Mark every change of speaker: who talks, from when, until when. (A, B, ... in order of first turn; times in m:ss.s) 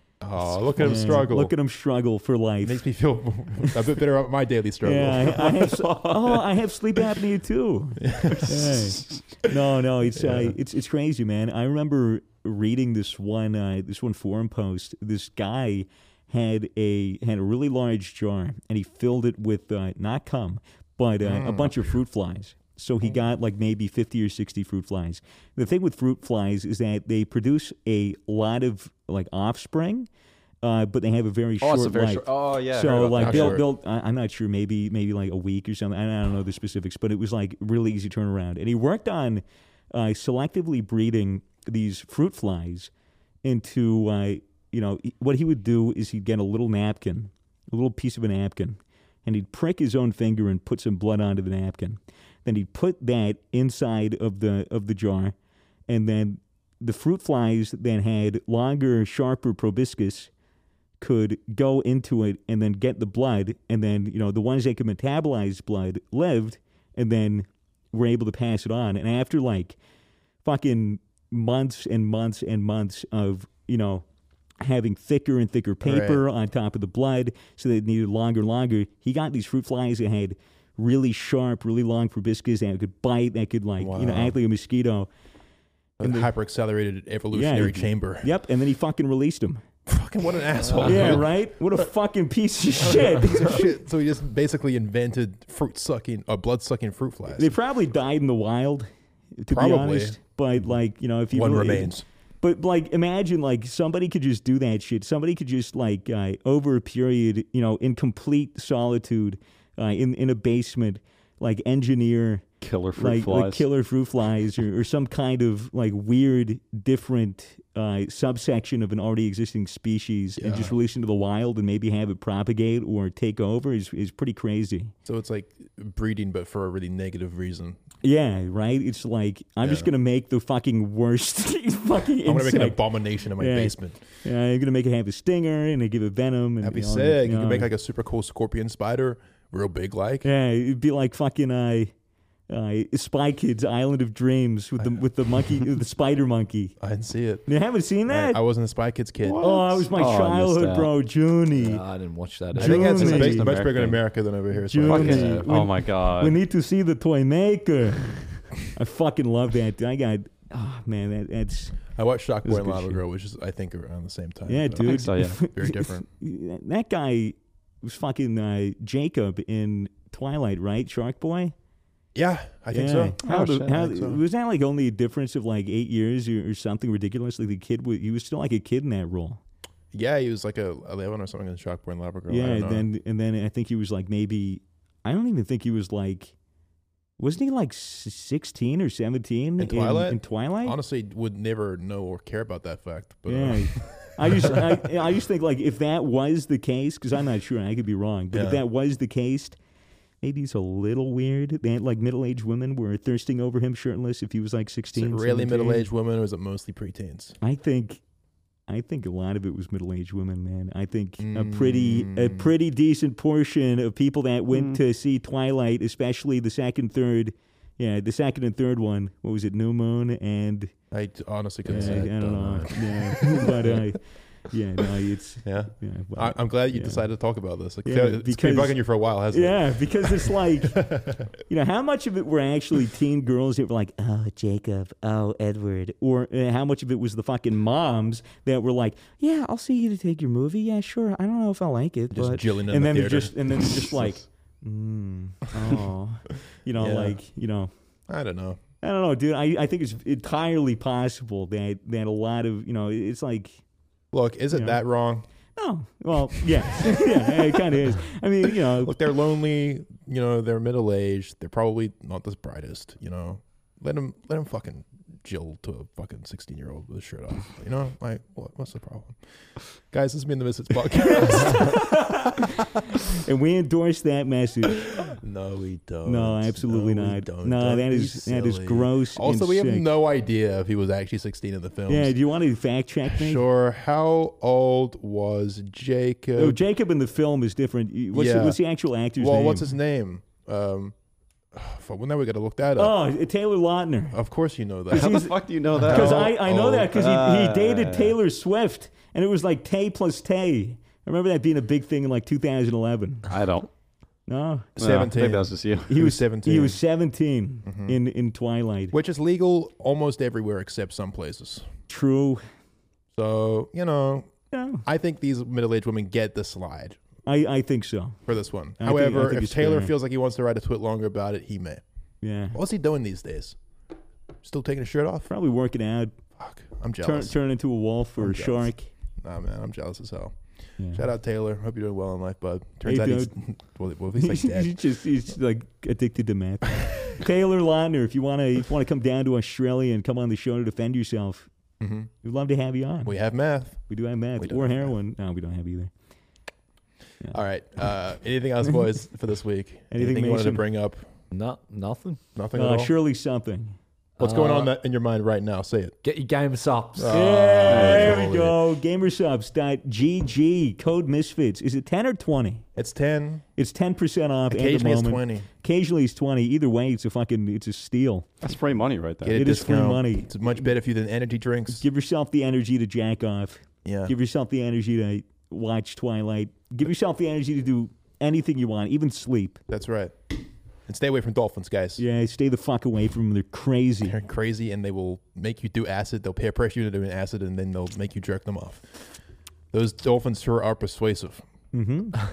0:00.2-0:01.5 A
0:00.8-0:02.9 B
0:02.6-0:05.6 A
0:04.8-0:30.1 B
0:05.7-0:06.4 C
0:08.0-0:08.7 A
0:08.4-0:09.2 C
0:10.1-0:10.6 A
0:21.2-0:21.9 A
0:30.6-0:42.9 B
0:31.6-0:33.6 C
0:33.1-0:33.7 A
0:43.4-0:55.4 B
0:55.9-1:00.3 B
1:01.0-1:09.8 B
1:10.4-1:14.0 B
1:14.6-1:25.1 B
1:15.8-1:16.2 A
1:23.8-1:24.4 A
1:26.0-1:28.3 A
1:26.0-1:26.3 B
1:27.3-1:29.6 B
1:29.9-1:31.3 A
1:30.8-1:33.6 B
1:30.8-1:31.2 D
1:32.8-1:37.6 A
1:37.4-2:04.9 B
1:39.5-1:40.2 A
1:41.3-1:42.0 A
1:52.6-1:53.7 C
2:00.4-2:00.7 A
2:05.1-2:07.8 A
2:08.0-2:17.7 B
2:09.6-2:09.9 A
2:12.2-2:14.0 A
2:16.6-2:20.3 A
2:20.2-2:21.9 B
2:22.5-2:26.8 B
2:26.8-2:27.5 A
2:27.5-2:28.4 B
2:28.1-2:29.4 A
2:29.2-2:30.9 C
2:29.4-2:31.8 B
2:31.6-2:33.2 D
2:32.6-2:35.5 A
2:32.6-2:33.6 B
2:32.9-2:34.0 C
2:34.5-2:41.8 B
2:34.9-2:36.4 C
2:34.9-2:35.5 D
2:42.0-2:46.1 A
2:42.4-2:43.0 B
2:44.5-2:51.5 B
2:44.8-2:45.4 C
2:52.2-2:54.2 A
2:52.7-2:59.4 B
2:53.2-2:53.8 C
2:59.9-3:02.9 A
3:02.3-3:06.3 B
3:07.2-3:10.8 B
3:09.6-3:14.9 A
3:13.3-3:19.6 B
3:18.3-3:18.6 A
3:20.2-3:25.9 B
3:25.0-3:27.4 A
3:27.4-3:28.0 B
3:28.7-3:40.7 B
3:31.2-3:32.5 A
3:40.9-3:43.9 A
3:41.7-3:47.1 B
3:41.7-3:42.7 D
3:45.4-3:51.3 A
3:47.8-3:48.8 B
3:49.3-3:50.9 B
3:51.4-4:07.7 B
4:02.1-4:03.9 A
4:06.8-4:07.2 A
4:08.1-4:08.6 A
4:08.8-4:13.6 B
4:14.1-4:15.3 A
4:14.5-4:14.8 B
4:15.6-4:19.0 B
4:18.7-4:29.2 A
4:29.9-4:32.4 A
4:31.0-4:35.1 B
4:34.7-4:42.2 A
4:36.0-4:39.9 B
4:41.9-4:43.4 B
4:43.0-4:46.6 A
4:46.4-4:49.7 B
4:48.1-4:48.6 A
4:49.2-4:51.0 A
4:51.5-4:53.0 A
4:52.8-4:54.2 B
4:54.1-4:55.2 A
4:54.9-4:58.2 C
4:54.9-5:03.3 B
4:55.8-4:56.9 A
5:03.3-5:03.7 C
5:04.3-5:05.1 B
5:04.8-5:06.8 A
5:04.8-5:05.9 C
5:05.9-5:08.9 B
5:07.6-5:08.0 A
5:08.9-5:11.7 A
5:11.9-5:12.4 B
5:13.2-5:14.3 A
5:14.5-5:14.8 B
5:14.8-5:17.0 A
5:17.2-5:18.2 B
5:18.3-5:21.8 A
5:18.8-5:19.9 B
5:22.2-5:22.6 B
5:22.5-5:23.6 A
5:24.4-5:25.3 A
5:25.3-5:26.2 B
5:26.4-5:27.4 A
5:27.0-5:28.9 B
5:28.2-5:28.7 A
5:29.2-5:30.4 A
5:30.9-5:34.8 A
5:32.8-5:33.3 B
5:34.2-5:41.5 B
5:41.8-5:42.1 A
5:42.2-5:43.1 B
5:43.0-5:43.8 A
5:43.9-5:45.9 B
5:44.4-5:44.9 A
5:47.3-5:51.0 A
5:49.9-5:50.6 B
5:51.3-5:52.2 D
5:52.4-5:52.9 A
5:52.5-5:53.8 B
5:54.2-5:56.0 A
5:54.2-5:54.7 D
5:56.0-5:57.2 D
5:57.0-5:58.6 A
5:57.1-6:02.6 B
5:57.7-5:58.1 C
6:02.8-6:03.4 A
6:03.6-6:08.3 B
6:04.5-6:05.5 A
6:08.4-6:09.4 C
6:09.2-6:11.8 A
6:09.3-6:10.4 B
6:11.7-6:19.6 B
6:13.8-6:14.1 A
6:19.7-6:20.2 A
6:20.9-6:22.0 A
6:22.0-6:24.2 B
6:24.0-6:29.0 A
6:29.7-6:31.4 A
6:31.7-6:32.2 B